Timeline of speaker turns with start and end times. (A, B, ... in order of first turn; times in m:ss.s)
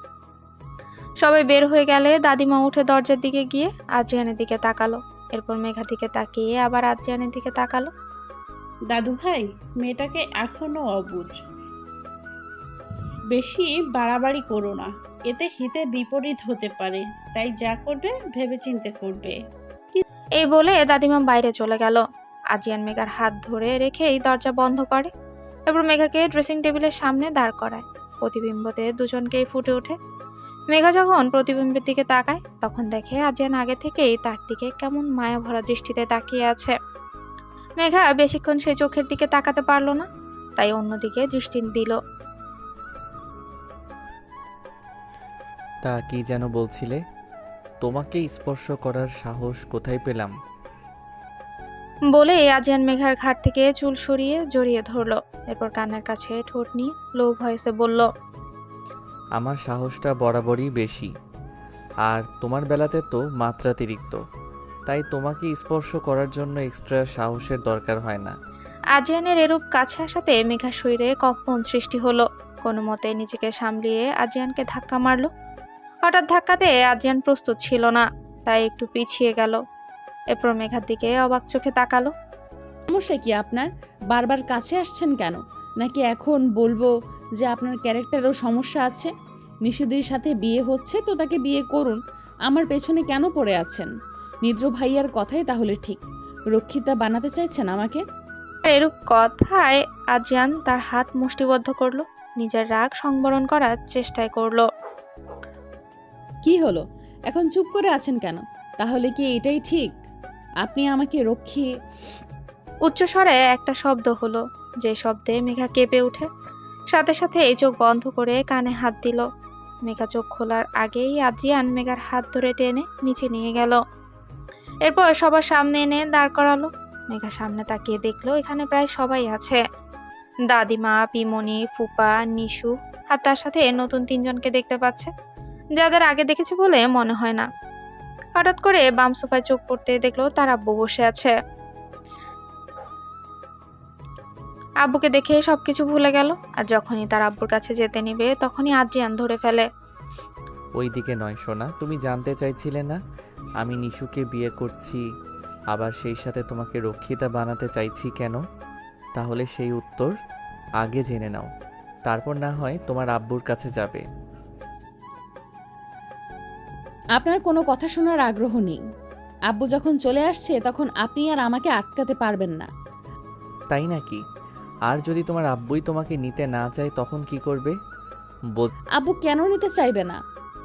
0:01.2-0:07.9 A
0:08.9-0:11.4 B
0:13.3-0:19.4 B
0:20.4-0:22.0 A
0:22.5-0:25.1 A
0:25.7-0:30.0 A
0:30.7-0:36.8 A
0:37.8-0:40.1 A
0:40.6-0:42.0 A
0:45.9-0:47.0 C
0:47.8-0:50.3 C
0:52.1-0:58.1 A
0:59.4-1:01.1 C
1:02.1-1:04.2 C
1:04.9-1:08.3 C
1:09.0-1:15.3 A
1:16.1-1:19.6 A
1:20.3-1:22.1 A
1:22.9-1:29.1 D
1:29.6-1:33.9 D
1:34.4-1:36.0 D
1:36.5-1:38.0 D
1:38.6-1:44.7 A
1:46.4-1:50.0 D
1:50.6-1:51.7 D
1:52.9-1:56.3 A
1:56.9-1:59.2 A
1:59.9-2:03.8 A
2:04.8-2:09.6 A
2:10.5-2:15.1 A
2:15.8-2:17.5 A
2:18.4-2:21.3 A
2:24.8-2:29.7 A
2:30.8-2:33.0 C
2:33.6-2:35.0 C
2:35.8-2:38.4 C
2:39.2-2:40.1 C
2:40.8-2:41.4 C
2:42.1-2:44.0 C
2:47.2-2:48.8 D
2:49.5-2:52.7 D
2:53.7-2:54.2 C
2:54.9-2:57.7 C
2:59.0-3:00.2 D